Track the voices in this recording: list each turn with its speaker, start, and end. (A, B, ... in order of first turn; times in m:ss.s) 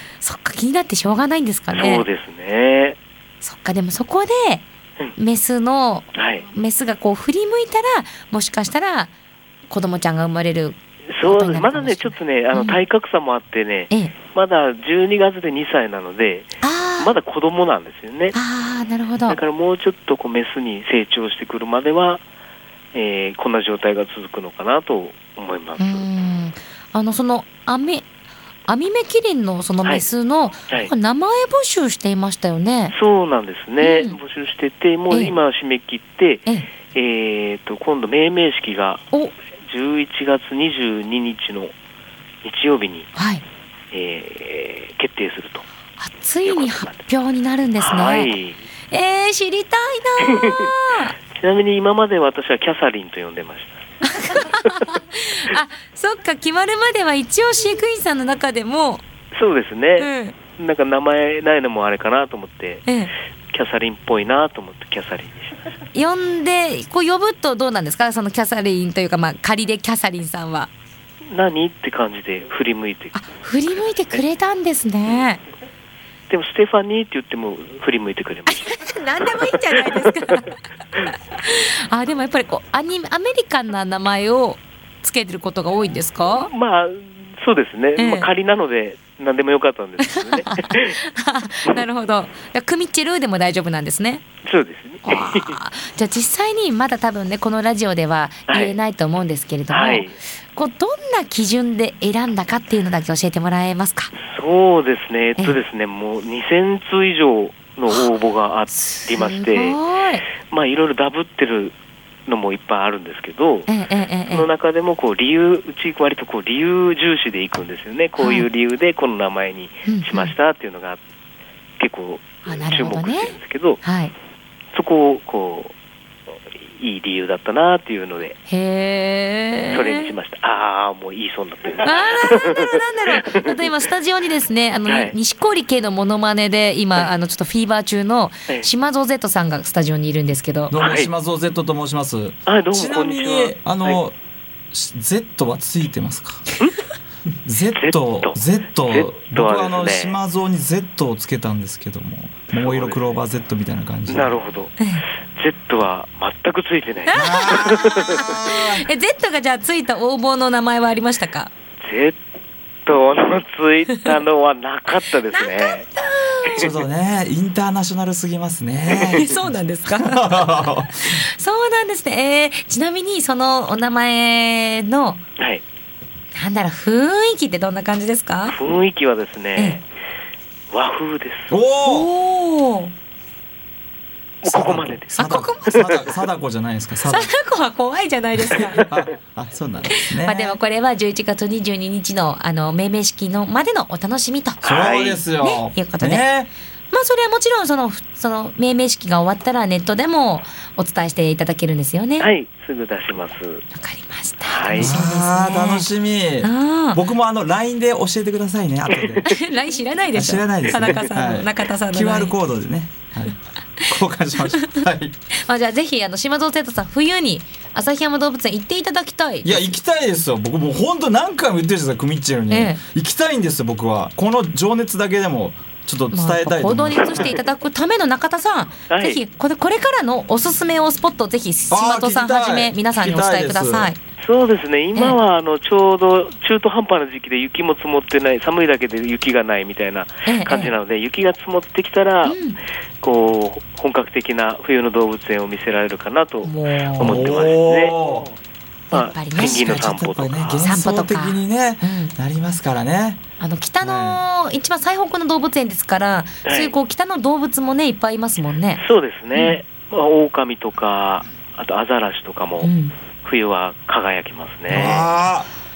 0:00.2-0:02.1 A
0:01.7-0:03.0 B
0:03.4-0:09.1 A
0:06.1-0:06.5 B
0:09.7-0:12.8 A
0:11.1-0:18.4 B
0:16.6-0:17.1 A
0:18.3-0:19.4 A
0:19.3-0:22.2 B
0:22.9-0:26.0 B
0:25.8-0:28.0 A
0:28.7-0:32.9 A
0:32.9-0:39.0 B
0:33.8-0:34.2 A
0:35.1-0:35.4 A
0:39.6-0:41.7 B
0:42.4-0:43.1 B
0:43.1-0:43.4 A
0:43.9-0:45.6 B
0:46.0-0:48.3 A
0:46.4-0:47.0 B
0:47.8-0:48.6 B
0:48.9-0:51.1 A
0:50.2-0:50.7 B
0:51.3-0:53.8 B
0:54.0-0:59.0 A
0:54.3-0:54.7 B
0:59.3-1:02.9 B
1:00.0-1:00.4 A
1:02.8-1:03.1 A
1:03.5-1:05.6 B
1:05.9-1:10.7 A
1:11.3-1:13.2 B
1:13.1-1:15.4 A
1:16.3-1:18.7 B
1:18.5-1:20.5 A
1:19.4-1:20.3 B
1:21.4-1:26.5 A
1:26.3-1:31.0 B
1:28.0-1:28.3 A
1:30.1-1:34.2 A
1:34.4-1:35.6 B
1:35.0-1:44.1 A
1:38.5-1:38.8 B
1:39.7-1:40.2 B
1:44.2-1:49.8 B
1:48.9-1:50.2 A
1:50.5-1:51.7 B
1:52.3-1:53.7 B
1:53.7-1:54.5 A
1:54.3-2:01.0 B
1:58.2-1:58.5 A
1:59.8-2:00.3 A
2:01.8-2:03.8 B
2:02.4-2:04.1 A
2:04.7-2:05.7 B
2:06.5-2:08.4 B
2:08.5-2:10.1 A
2:09.7-2:13.6 B
2:11.8-2:20.7 A
2:14.8-2:15.1 B
2:20.7-2:24.1 C
2:20.8-2:21.1 B
2:22.4-2:24.0 B
2:24.7-2:26.4 C
2:27.4-2:34.4 C
2:27.7-2:30.2 B
2:32.5-2:33.2 B
2:34.1-2:34.8 B
2:34.8-2:35.0 A
2:35.4-2:38.3 B
2:37.1-2:41.5 A
2:37.1-2:38.9 C
2:41.8-2:42.2 B
2:42.8-2:45.9 B
2:45.3-2:46.7 A
2:46.5-2:50.9 C
2:48.9-2:55.2 A
2:56.3-2:58.6 A
2:58.4-2:59.8 B
3:00.7-3:01.5 B
3:01.5-3:02.1 C
3:01.8-3:02.9 A
3:04.4-3:06.0 B
3:04.4-3:07.3 C
3:05.1-3:06.0 A
3:07.0-3:08.9 A
3:08.7-3:10.6 C
3:09.9-3:14.6 A
3:14.6-3:15.2 B
3:14.6-3:16.5 C
3:15.4-3:16.2 A
3:16.9-3:22.3 A
3:22.2-3:23.6 B
3:23.7-3:25.9 A
3:24.4-3:25.0 B
3:24.8-3:29.4 C
3:26.4-3:27.0 A
3:28.9-3:29.2 B
3:29.2-3:32.4 A
3:30.1-3:35.2 C
3:35.4-3:39.7 A
3:39.4-3:47.4 C
3:42.5-3:42.8 A
3:46.1-3:54.0 A
3:48.9-3:49.2 B
3:51.7-3:53.9 C
3:54.2-4:02.4 B
4:00.2-4:00.7 A
4:02.2-4:02.6 A
4:03.0-4:08.3 B
4:06.4-4:07.2 A
4:07.0-4:08.3 C
4:08.9-4:09.7 A
4:08.9-4:10.7 B
4:09.3-4:13.2 C
4:10.6-4:12.1 A
4:13.4-4:18.8 A
4:13.8-4:14.2 C
4:16.4-4:16.7 B
4:18.7-4:22.7 B
4:19.3-4:19.6 A
4:22.6-4:22.9 A
4:23.2-4:25.1 B
4:24.7-4:25.5 C